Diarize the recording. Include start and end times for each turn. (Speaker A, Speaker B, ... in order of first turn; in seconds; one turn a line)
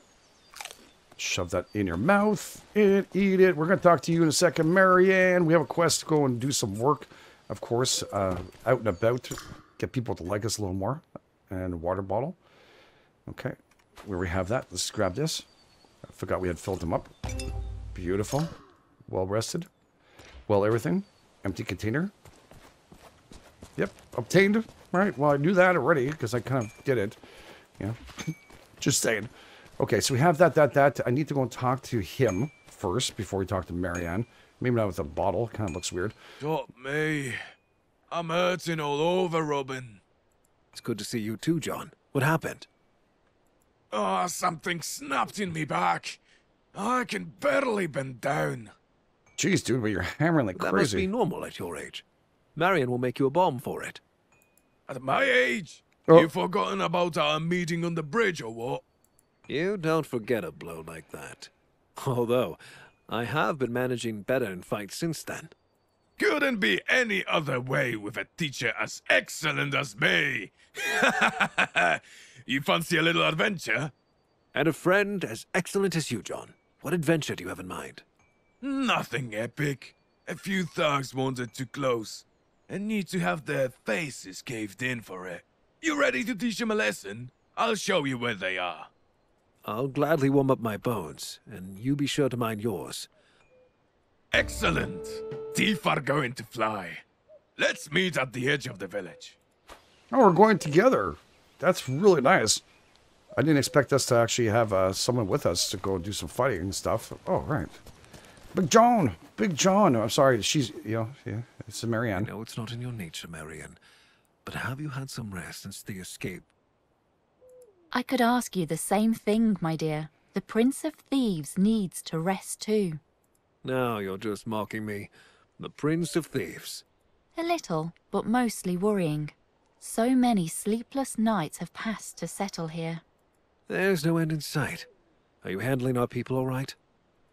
Speaker A: 1.2-12.4
Speaker A: 13.3-15.5
Speaker A: 16.1-17.1
Speaker A: 17.9-18.5
Speaker A: 19.1-19.7
Speaker A: 20.5-22.1
Speaker A: 23.8-27.2
Speaker A: 27.8-36.1
Speaker B: 36.4-37.4
Speaker B: 38.1-40.0
Speaker C: 40.7-42.7
Speaker B: 43.9-46.2
Speaker B: 46.7-48.7
Speaker A: 49.4-51.1
Speaker C: 50.6-54.0
Speaker B: 54.9-58.8
Speaker C: 59.5-65.5
Speaker B: 66.2-73.9
Speaker C: 74.5-78.0
Speaker B: 78.6-88.9
Speaker C: 89.6-93.1
Speaker B: 94.3-97.0
Speaker B: 97.6-99.4
Speaker A: 100.1-102.6
Speaker A: 103.3-107.8
Speaker A: 108.5-112.3
Speaker C: 112.2-113.8
Speaker C: 114.5-116.5
Speaker D: 117.9-123.0
Speaker C: 123.6-126.8
Speaker D: 127.4-133.0
Speaker C: 133.7-134.9
Speaker C: 135.4-136.8